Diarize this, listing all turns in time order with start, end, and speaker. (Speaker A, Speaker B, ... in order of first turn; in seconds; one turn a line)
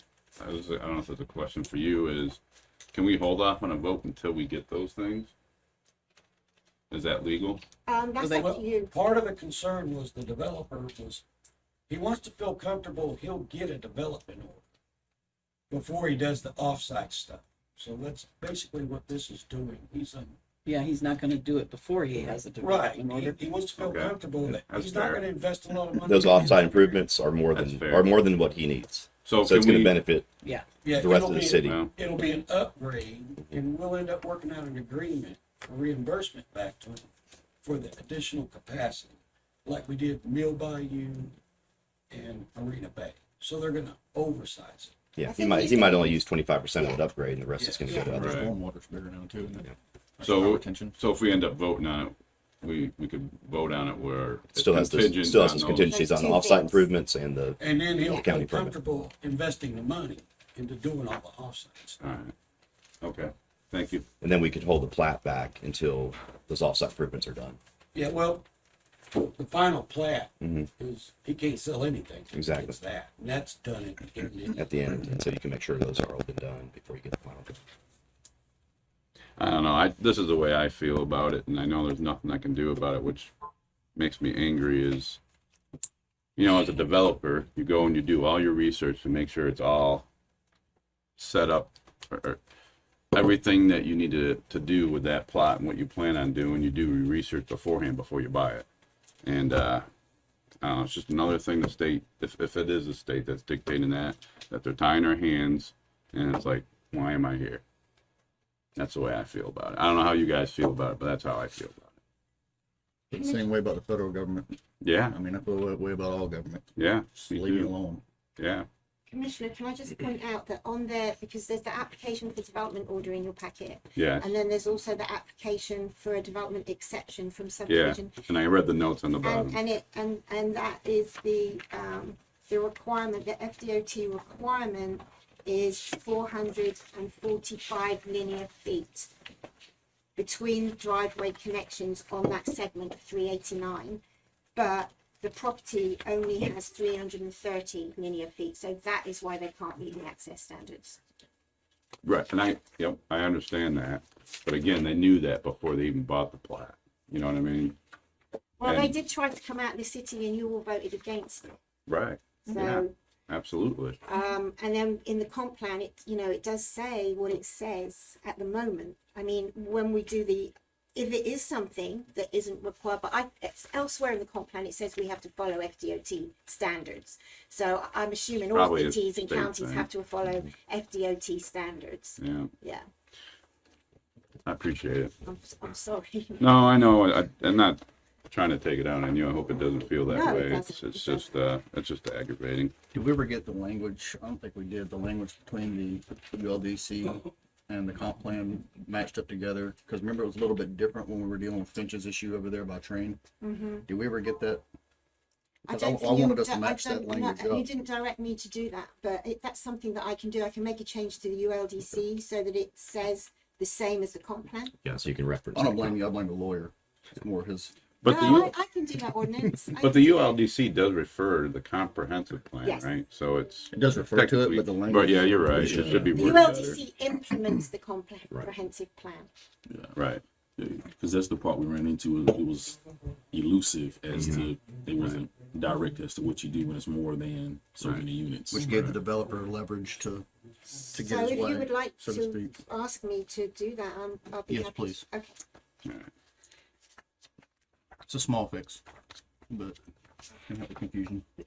Speaker A: 0.4-2.4
Speaker A: 2.9-5.3
Speaker A: 6.9-7.6
Speaker B: 7.8-8.9
Speaker C: 8.2-8.5
Speaker D: 8.4-11.2
Speaker D: 11.9-14.6
Speaker D: 15.7-20.4
Speaker C: 20.6-23.4
Speaker D: 22.6-27.0
Speaker A: 23.8-25.3
Speaker E: 26.0-30.3
Speaker A: 27.5-28.2
Speaker A: 29.2-29.9
Speaker C: 30.4-30.7
Speaker D: 30.8-37.1
Speaker E: 30.9-31.8
Speaker A: 31.6-31.9
Speaker D: 37.6-41.3
Speaker D: 42.1-44.9
Speaker E: 45.1-48.5
Speaker B: 45.3-46.2
Speaker B: 46.8-47.0
Speaker D: 47.6-48.1
Speaker B: 47.9-48.1
Speaker F: 48.0-50.9
Speaker A: 48.1-48.5
Speaker A: 50.2-55.9
Speaker E: 54.5-58.7
Speaker B: 55.7-56.9
Speaker D: 57.6-62.0
Speaker A: 62.0-62.3
Speaker A: 63.0-64.0
Speaker E: 64.2-67.6
Speaker D: 67.9-68.4
Speaker D: 69.1-74.6
Speaker E: 70.4-70.7
Speaker E: 72.3-72.8
Speaker E: 74.5-77.5
Speaker A: 79.4-83.3
Speaker A: 84.0-85.2
Speaker A: 86.4-90.0
Speaker A: 91.2-92.4
Speaker A: 93.1-98.7
Speaker A: 99.2-99.8
Speaker A: 100.6-107.6
Speaker A: 108.8-111.9
Speaker F: 113.1-114.6
Speaker B: 113.2-113.4
Speaker A: 114.8-115.2
Speaker F: 115.1-116.7
Speaker A: 116.8-117.7
Speaker F: 117.2-118.0
Speaker A: 118.4-118.7
Speaker B: 119.1-128.2
Speaker A: 124.0-124.3
Speaker A: 127.7-129.6
Speaker B: 129.2-139.1
Speaker B: 140.2-144.0
Speaker B: 144.5-151.0
Speaker A: 152.0-157.8
Speaker B: 158.6-161.6
Speaker A: 158.6-158.9
Speaker A: 161.9-164.0
Speaker B: 162.5-162.9
Speaker B: 164.0-182.8
Speaker A: 178.5-179.9
Speaker A: 182.2-182.5
Speaker A: 184.4-185.1
Speaker B: 185.2-186.5
Speaker A: 186.4-192.7
Speaker B: 190.0-191.3
Speaker F: 192.9-203.2
Speaker B: 203.4-203.8
Speaker F: 203.9-204.6
Speaker B: 205.7-214.7
Speaker F: 205.7-207.7
Speaker E: 214.8-216.0
Speaker F: 215.5-218.5
Speaker A: 218.0-218.5
Speaker B: 218.0-220.4
Speaker A: 219.8-226.8
Speaker F: 223.7-226.2
Speaker B: 226.1-229.3
Speaker G: 229.7-229.9
Speaker A: 229.9-230.2
Speaker G: 230.6-238.7
Speaker A: 234.9-235.2
Speaker F: 238.5-240.2
Speaker A: 238.7-239.0
Speaker F: 240.9-242.5
Speaker B: 241.0-245.3
Speaker F: 244.5-245.0
Speaker F: 248.1-248.8
Speaker F: 249.5-249.8
Speaker F: 250.5-251.2